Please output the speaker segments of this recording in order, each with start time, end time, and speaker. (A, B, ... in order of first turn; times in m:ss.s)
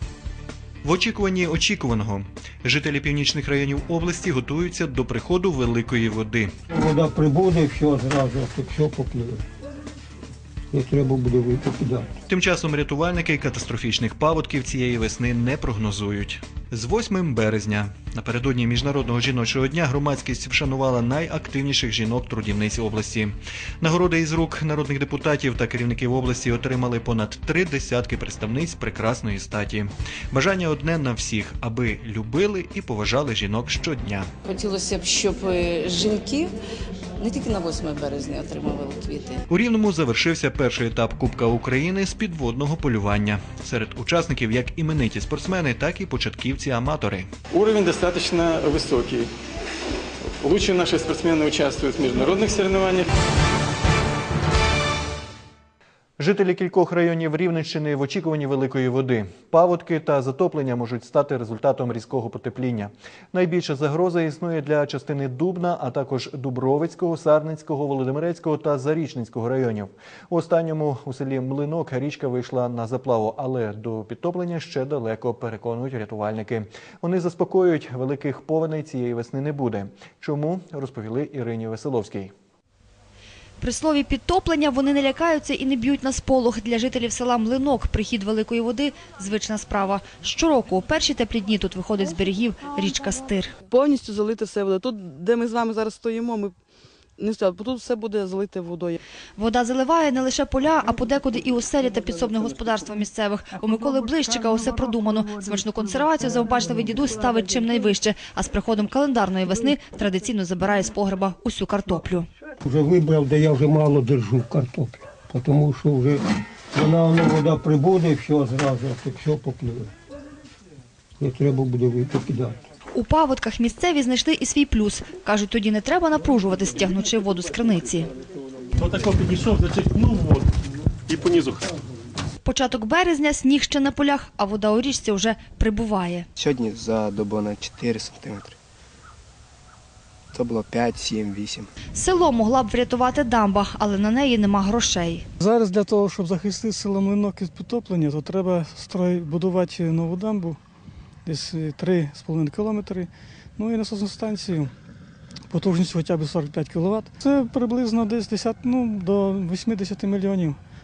0:00.8-0:06.5 A
0:06.7-0:09.4 B
0:10.7-0:12.1 B
0:12.3-0:34.3 A
0:34.5-0:36.5 C
0:37.2-0:39.4 C
0:39.5-0:47.3 A
0:47.5-0:49.3 D
0:50.4-0:53.1 D
0:56.2-1:22.3 A
1:23.6-1:33.5 E
1:33.7-1:36.5 F
1:37.2-1:39.0 F
1:39.4-1:52.3 E
1:52.6-1:59.9 B
2:01.2-2:02.6 B
2:02.9-2:08.1 E
2:12.4-2:16.3 E
2:16.4-2:18.5 G
2:20.4-2:21.7 G
2:22.0-2:25.2 E
2:25.4-2:30.6 H
2:31.2-2:34.7 H
2:35.5-2:40.6 H